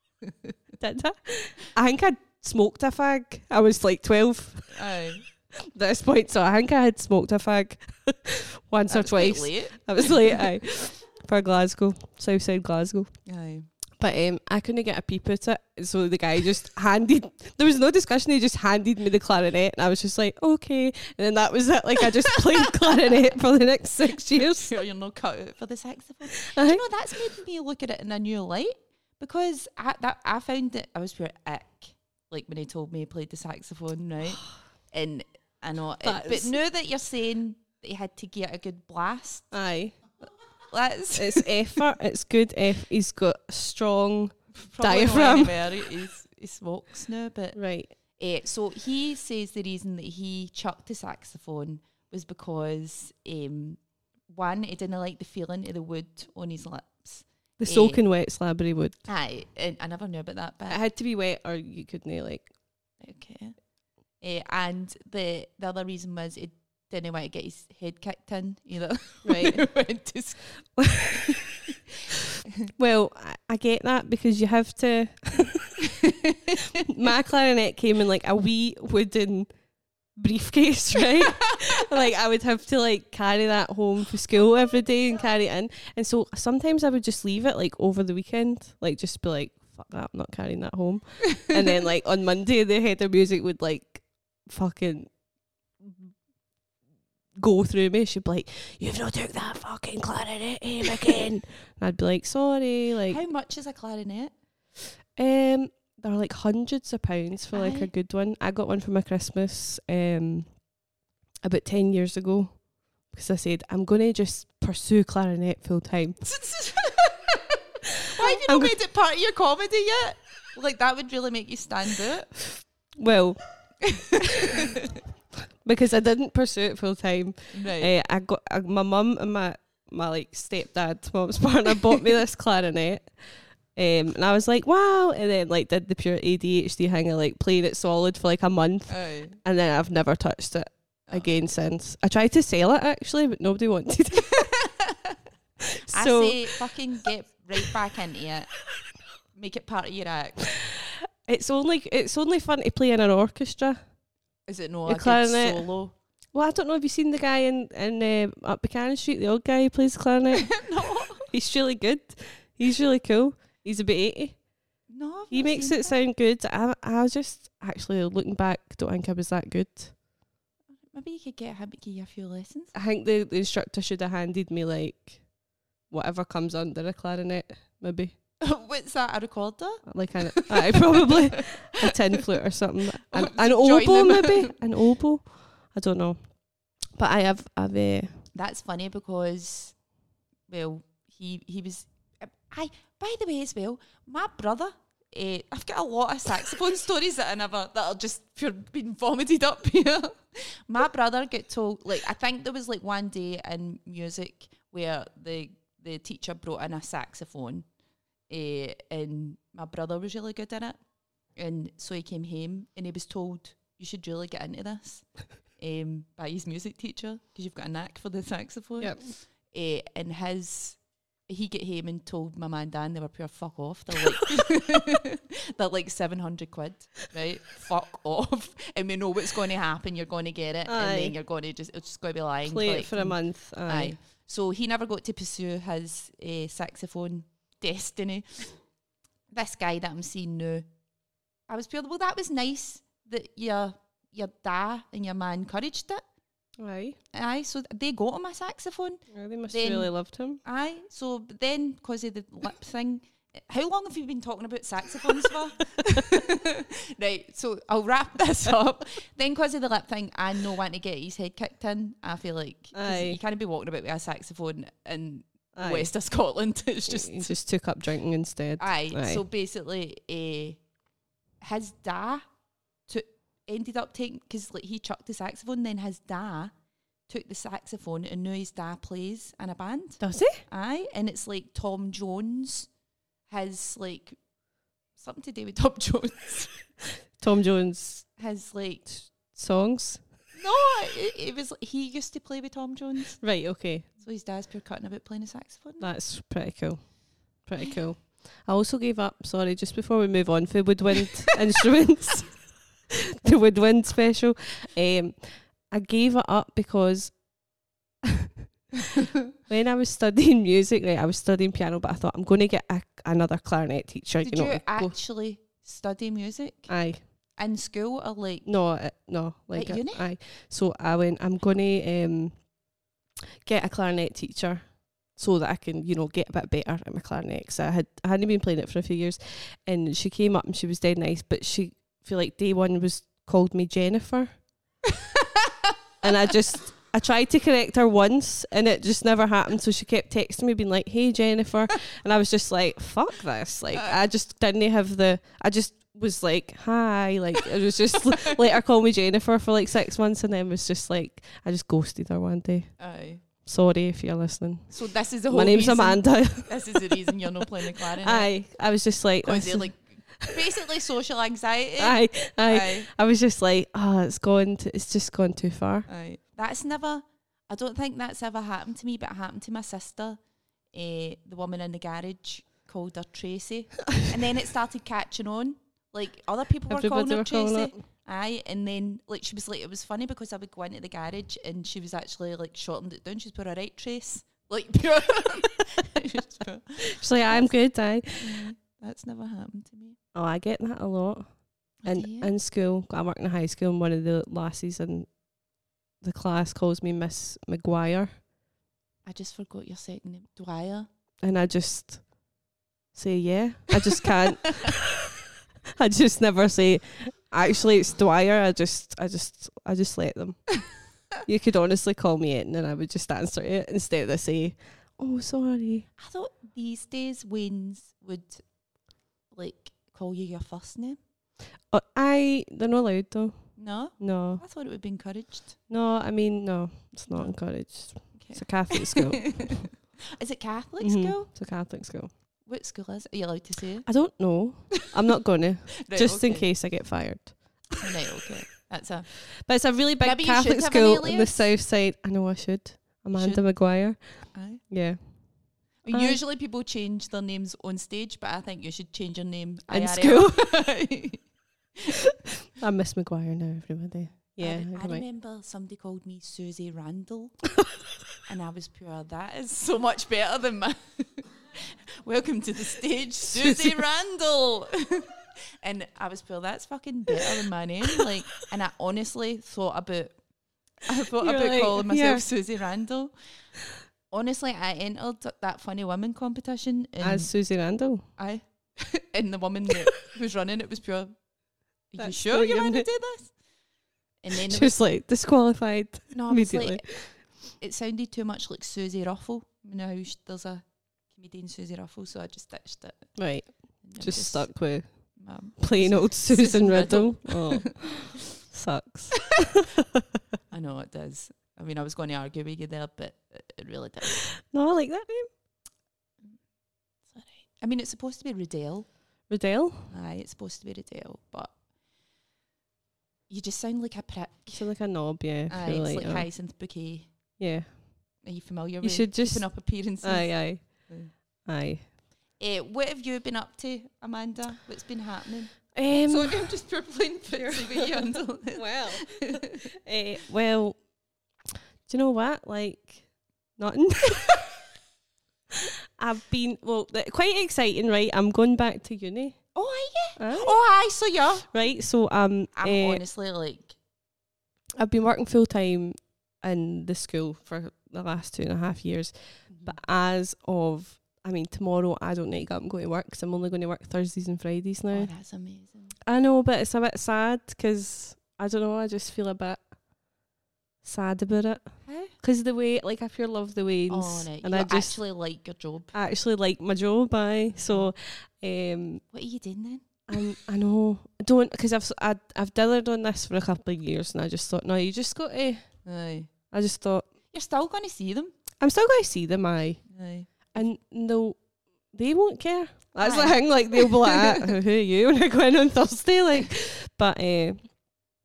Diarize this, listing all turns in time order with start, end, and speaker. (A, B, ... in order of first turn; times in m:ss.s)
0:00.2-0:00.5 A
0:00.8-0:04.8 B
0:04.7-0:05.2 A
0:05.5-0:13.1 B
0:08.9-0:10.4 A
0:13.2-0:13.7 A
0:14.0-0:24.8 B
0:24.2-0:39.5 A
0:26.4-0:26.8 B
0:36.0-0:36.6 B
0:39.5-0:40.0 B
0:40.7-0:41.8 A
0:41.1-0:45.7 B
0:44.5-0:58.0 A
0:47.5-0:47.9 B
0:57.6-0:59.0 B
0:59.0-1:00.8 A
1:00.7-1:02.5 B
1:03.0-1:03.6 A
1:04.2-1:10.4 A
1:09.2-1:09.7 B
1:10.8-1:11.4 B
1:12.7-1:15.8 B
1:15.9-1:16.6 A
1:16.8-1:19.5 B
1:20.1-1:35.1 B
1:37.4-1:43.2 B
1:43.1-1:44.3 A
1:45.1-1:50.6 B
1:47.5-1:47.9 A
1:51.4-1:56.3 B
1:56.2-2:02.4 A
1:58.2-1:58.8 B
2:03.0-2:03.4 B
2:03.8-2:04.8 A
2:05.6-2:24.5 B
2:07.5-2:07.9 A
2:18.9-2:19.4 A
2:24.3-2:25.1 A
2:25.9-2:28.6 A
2:25.9-2:26.5 B
2:29.3-2:30.5 A
2:30.8-2:33.8 B
2:34.5-2:36.0 A
2:34.9-2:35.7 B
2:36.3-2:44.4 B
2:40.3-2:41.2 A
2:44.9-2:46.0 A
2:45.3-2:50.0 B
2:50.8-2:52.7 A
2:52.7-2:55.2 B
2:55.9-2:58.1 B
2:58.4-3:01.4 A
2:59.8-3:08.2 B
3:03.0-3:04.6 A
3:08.3-3:09.8 A
3:10.5-3:27.6 A
3:28.3-3:30.8 A
3:31.3-3:58.5 A
3:38.8-3:39.1 B
3:50.7-3:51.1 B
3:52.4-3:53.9 B
3:59.3-4:00.6 A
4:01.5-4:06.0 A
4:06.6-4:07.0 B
4:07.1-4:27.4 A
4:09.1-4:10.4 B
4:22.7-4:23.2 B
4:25.5-4:25.9 B
4:26.9-4:29.2 B
4:28.6-4:30.6 A
4:31.4-4:32.2 A
4:32.9-4:36.5 A
4:37.1-4:42.7 A
4:40.0-4:40.4 B
4:43.3-4:44.2 A
4:44.9-4:46.6 A
4:47.2-4:48.1 B
4:48.2-4:48.9 A
4:48.9-4:50.0 B
4:50.3-4:55.9 A
4:53.2-4:53.9 B
4:55.8-5:02.5 B
5:03.2-5:07.2 B
5:09.5-5:15.0 B
5:14.2-5:18.5 A
5:16.7-5:17.0 B
5:18.4-5:22.5 B
5:19.5-5:20.1 A
5:23.4-5:34.4 B
5:35.2-5:35.5 A
5:36.0-5:57.1 B
5:52.8-5:53.2 A
5:54.7-5:58.4 A
5:58.0-6:00.4 B
5:59.2-6:02.9 A
6:01.8-6:05.9 B
6:05.9-6:10.2 A
6:10.7-6:27.6 A
6:16.7-6:17.8 B
6:26.9-6:28.5 B
6:28.1-6:30.0 A
6:30.1-6:35.2 B
6:31.8-6:32.3 A
6:36.0-6:38.2 B
6:39.0-6:40.9 A
6:41.2-6:42.1 B
6:42.9-6:45.0 B
6:45.8-6:55.9 B
6:56.0-6:58.4 A
6:59.3-7:01.0 A
7:01.7-7:04.4 B
7:03.6-7:05.6 A
7:05.7-7:09.7 B
7:07.1-7:11.3 A
7:10.8-7:12.1 B
7:12.4-7:13.9 A
7:13.8-7:17.7 B
7:15.8-7:16.5 A
7:17.8-7:19.4 A
7:19.3-7:26.2 B
7:20.0-7:21.4 A
7:23.1-7:24.6 A
7:25.8-7:31.3 A
7:29.7-7:30.5 B
7:32.6-7:35.0 B
7:34.4-7:37.5 A
7:38.2-7:50.2 A
7:43.3-7:43.8 B
7:50.8-7:53.1 A
7:51.2-7:52.2 B
7:54.1-7:57.4 A
7:57.0-7:58.1 B
7:58.1-8:01.2 A
8:01.9-8:03.4 A
8:02.0-8:02.9 B
8:04.2-8:04.8 A
8:04.3-8:07.2 B
8:06.1-8:18.0 A
8:13.2-8:19.5 B
8:20.5-8:24.3 A
8:24.4-8:25.3 B
8:27.0-8:29.3 A
8:29.3-8:29.9 B
8:29.9-8:31.6 A
8:33.3-8:34.8 A
8:34.5-8:36.3 B
8:35.5-8:37.4 A
8:37.4-8:38.2 B
8:38.2-8:41.1 A
8:38.8-8:41.9 B
8:42.4-8:49.6 A
8:45.7-8:46.7 B
8:47.3-8:50.8 B
8:51.8-8:54.5 B
8:56.0-8:59.5 B
8:59.5-9:01.5 A
9:00.2-9:00.8 B
9:01.5-9:03.0 B
9:02.5-9:03.8 A
9:04.8-9:15.1 B
9:09.5-9:09.8 A
9:14.9-9:15.9 A
9:16.0-9:19.7 B
9:20.8-9:25.0 B
9:21.8-9:22.1 A
9:23.9-9:25.9 A
9:25.9-9:29.0 B
9:27.5-9:27.9 A
9:29.1-9:30.2 A
9:30.1-9:35.9 B
9:35.8-9:36.3 A
9:36.5-9:37.1 B
9:37.3-9:38.3 A
9:38.6-9:47.9 B
9:39.9-9:40.7 A
9:43.0-9:44.4 A